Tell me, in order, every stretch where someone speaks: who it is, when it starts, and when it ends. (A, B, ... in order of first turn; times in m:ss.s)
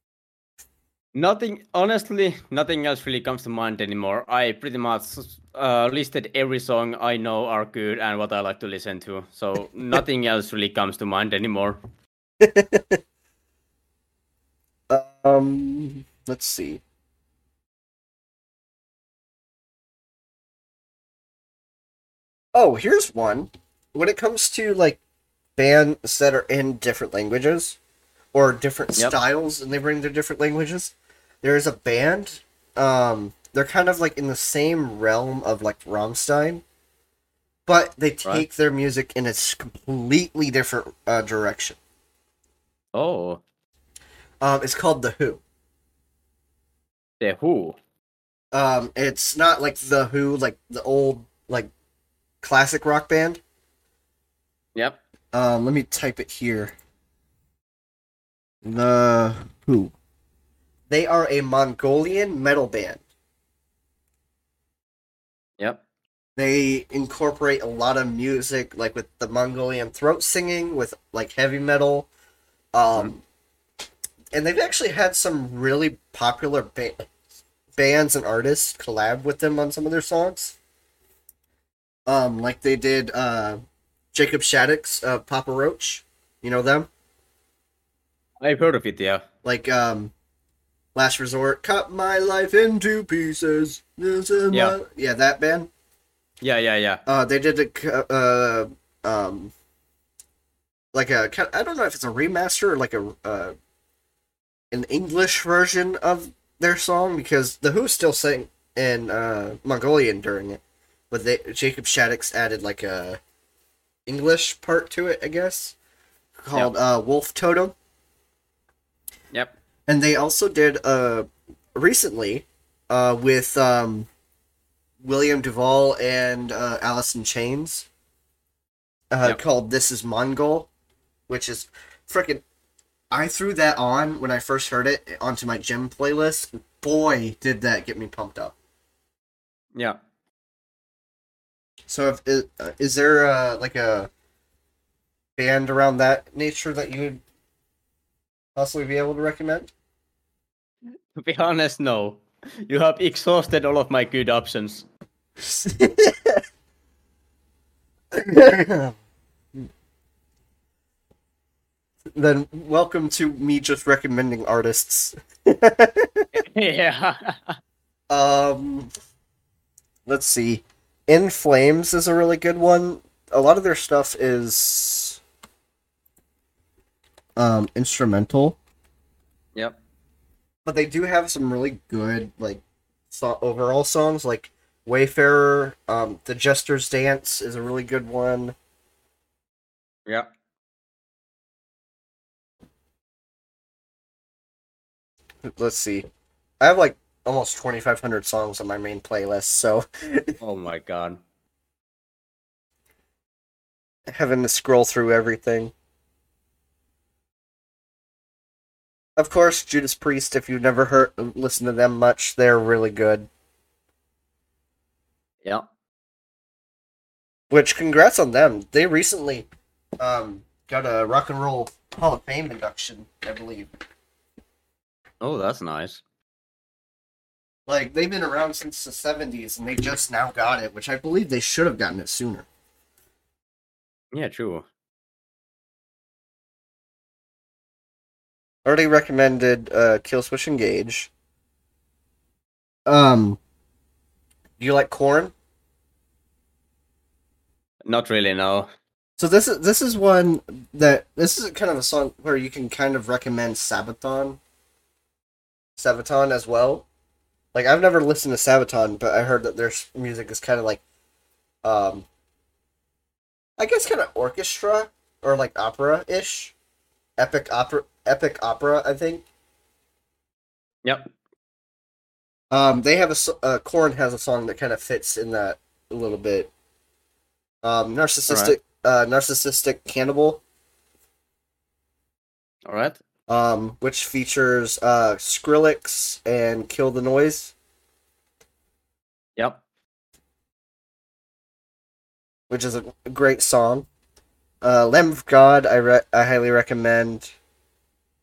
0:01.1-0:11.8 A
0:12.4-0:13.0 B
0:14.9-0:16.8 B
0:22.5-0:25.0 B
0:25.6-0:27.8 B
0:28.3-0:36.6 B
0:37.6-0:41.8 B
0:42.9-0:43.4 A
0:44.4-0:45.4 B
0:47.2-0:47.8 A
0:48.5-0:51.7 B
0:52.4-0:53.4 B
0:55.3-0:56.7 B
0:58.6-0:59.9 B
1:00.9-1:03.0 B
1:06.4-1:12.1 B
1:12.7-1:13.2 B
1:14.3-1:17.1 B
1:17.8-1:20.6 B
1:22.1-1:23.6 B
1:24.1-1:26.9 B
1:28.4-1:29.2 A
1:29.4-1:30.1 B
1:30.9-1:35.7 B
1:36.4-1:37.0 A
1:37.0-1:39.5 B
1:40.9-1:43.5 B
1:44.7-1:53.2 B
1:54.0-1:55.8 B
1:56.4-1:57.7 B
1:59.9-2:04.1 B
2:05.0-2:07.9 B
2:09.1-2:10.7 B
2:11.3-2:12.4 B
2:13.1-2:18.5 B
2:21.9-2:24.1 B
2:25.4-2:27.2 B
2:28.6-2:29.7 B
2:31.1-2:34.9 A
2:35.4-2:36.4 B
2:38.1-2:39.0 B
2:42.1-2:46.3 B
2:46.3-2:47.6 A
2:48.1-2:48.9 B
2:50.0-2:55.2 B
2:57.4-2:58.6 B
3:00.6-3:08.6 B
3:15.4-3:16.1 B
3:16.6-3:20.4 B
3:20.4-3:21.2 A
3:24.1-3:25.7 B
3:29.2-3:33.3 B
3:37.5-3:39.5 B
3:40.0-3:43.7 B
3:45.2-3:46.0 A
3:47.7-3:52.5 B
3:54.1-3:54.7 A
3:58.6-4:01.1 B
4:02.8-4:03.4 B
4:04.6-4:05.3 B
4:07.8-4:08.7 A
4:09.2-4:14.4 B
4:15.8-4:16.8 B
4:17.5-4:20.8 B
4:21.6-4:22.0 B
4:23.6-4:26.5 B
4:27.2-4:29.2 B
4:30.8-4:31.1 A
4:32.5-4:36.5 B
4:37.6-4:40.4 B
4:38.3-4:38.5 A
4:42.6-4:43.0 A
4:43.3-4:47.5 B
4:49.4-4:49.6 A
4:52.5-4:53.9 B
4:54.6-4:57.3 B